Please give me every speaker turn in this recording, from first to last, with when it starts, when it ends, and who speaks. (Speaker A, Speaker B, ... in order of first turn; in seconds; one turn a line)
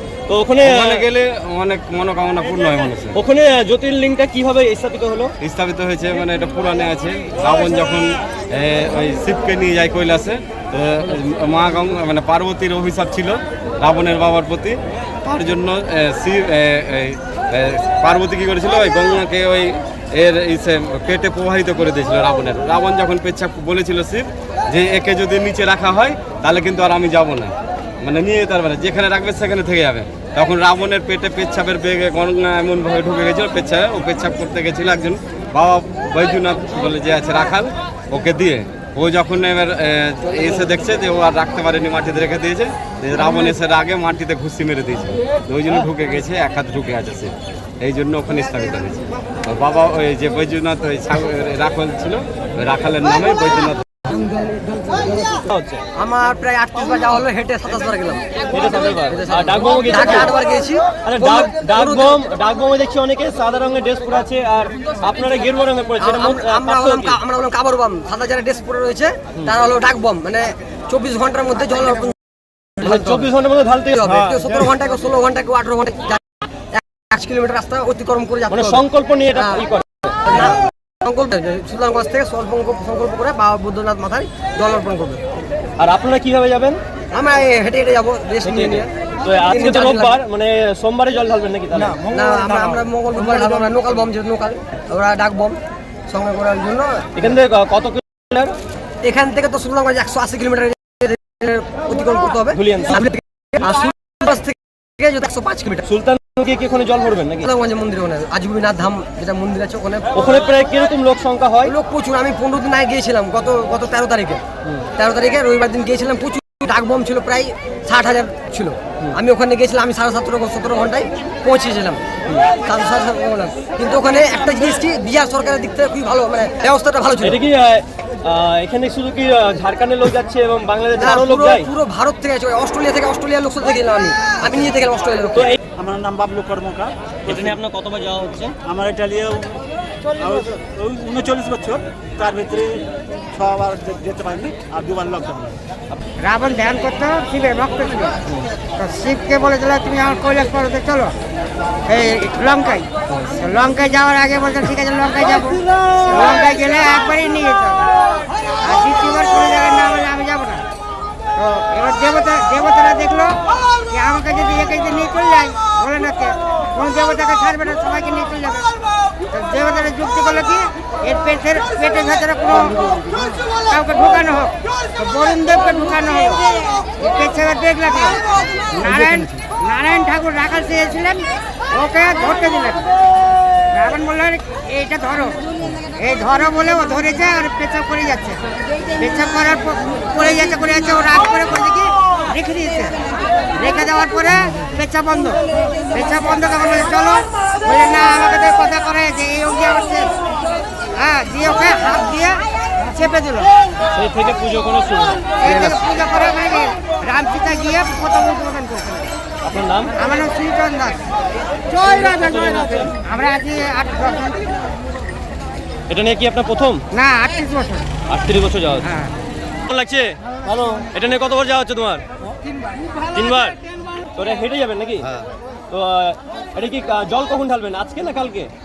Speaker A: 0.3-1.1
Speaker B: 0.6-3.1
Speaker A: 3.1-5.3
Speaker B: 5.4-53.8
Speaker C: 54.0-55.2
Speaker A: 55.3-55.8
Speaker C: 56.0-62.2
Speaker A: 58.5-60.3
Speaker A: 61.0-67.2
Speaker C: 66.0-73.3
Speaker A: 72.8-74.6
Speaker C: 73.9-76.2
Speaker C: 76.7-79.7
Speaker A: 78.5-80.3
Speaker C: 80.2-85.2
Speaker A: 85.8-86.8
Speaker C: 87.1-90.2
Speaker A: 88.4-92.0
Speaker C: 92.0-97.3
Speaker A: 97.2-98.5
Speaker C: 99.0-105.8
Speaker A: 102.5-103.0
Speaker A: 105.8-107.5
Speaker C: 107.4-110.1
Speaker A: 110.1-111.7
Speaker C: 111.6-114.4
Speaker C: 115.0-122.0
Speaker C: 122.6-127.4
Speaker A: 127.2-131.7
Speaker C: 131.0-135.6
Speaker D: 135.8-137.6
Speaker A: 137.3-138.5
Speaker D: 138.7-139.6
Speaker D: 140.2-142.8
Speaker D: 143.3-145.6
Speaker E: 146.2-148.2
Speaker E: 148.8-151.1
Speaker E: 151.9-157.9
Speaker E: 158.6-160.7
Speaker E: 161.3-168.7
Speaker E: 169.3-173.0
Speaker E: 173.7-176.5
Speaker E: 177.0-182.9
Speaker E: 183.7-185.4
Speaker E: 186.0-188.4
Speaker E: 189.0-193.0
Speaker E: 193.5-195.4
Speaker E: 195.9-200.1
Speaker E: 201.0-203.5
Speaker A: 203.9-205.8
Speaker E: 205.4-209.1
Speaker A: 209.4-209.9
Speaker E: 210.0-211.0
Speaker E: 211.7-212.3
Speaker A: 211.9-212.9
Speaker E: 213.0-214.4
Speaker A: 215.9-216.8
Speaker E: 216.9-217.9
Speaker A: 218.1-218.9
Speaker A: 219.7-222.0
Speaker A: 223.1-225.1
Speaker A: 225.7-228.5